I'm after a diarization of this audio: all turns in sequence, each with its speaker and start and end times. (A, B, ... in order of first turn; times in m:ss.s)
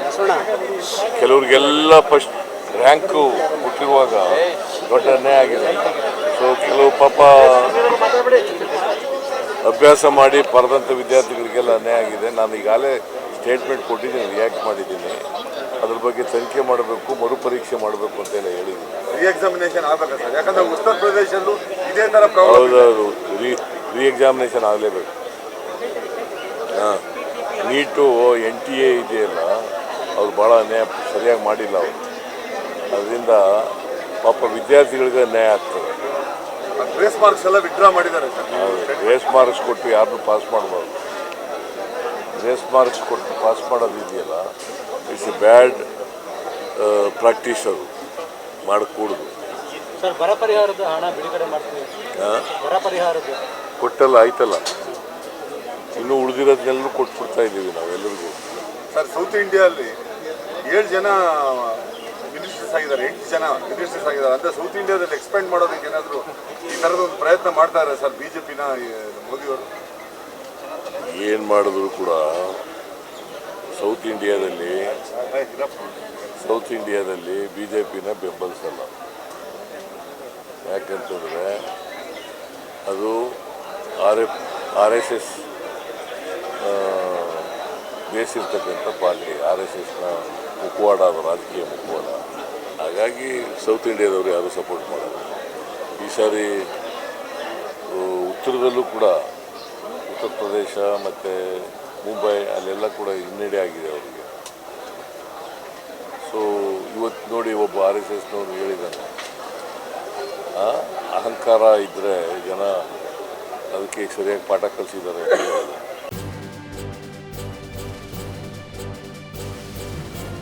0:00.1-0:00.5 A
0:01.1-0:07.8 B
0:08.2-0:08.6 A
0:09.6-0:15.2 B
0:15.8-0:19.0 B
0:19.1-0:22.9 C
0:22.4-0:25.1 B
0:26.7-0:27.0 B
0:27.6-0:29.5 B
0:30.1-0:32.0 B
0:32.9-0:33.4 B
0:34.2-0:35.9 B
0:36.8-0:39.1 C
0:38.5-0:40.9 B
0:42.3-0:44.4 B
0:45.1-0:45.9 B
0:46.8-0:47.9 B
0:48.7-0:49.3 B
0:50.0-0:51.9 A
0:52.2-0:52.5 B
0:52.6-0:53.4 A
0:53.8-0:54.7 B
0:56.0-0:58.4 B
0:58.9-1:00.0 C
1:00.7-1:09.7 C
1:11.0-1:12.6 B
1:13.8-1:14.9 B
1:15.1-1:15.9 C
1:16.4-1:18.9 B
1:20.7-1:21.7 B
1:22.9-1:23.3 B
1:24.0-1:25.4 B
1:26.6-1:27.5 B
1:28.1-1:32.2 B
1:32.8-1:35.4 B
1:36.0-1:36.7 B
1:37.9-1:39.2 B
1:40.1-1:44.3 B
1:46.2-1:49.1 B
1:50.6-1:52.8 B
1:53.7-1:55.8 B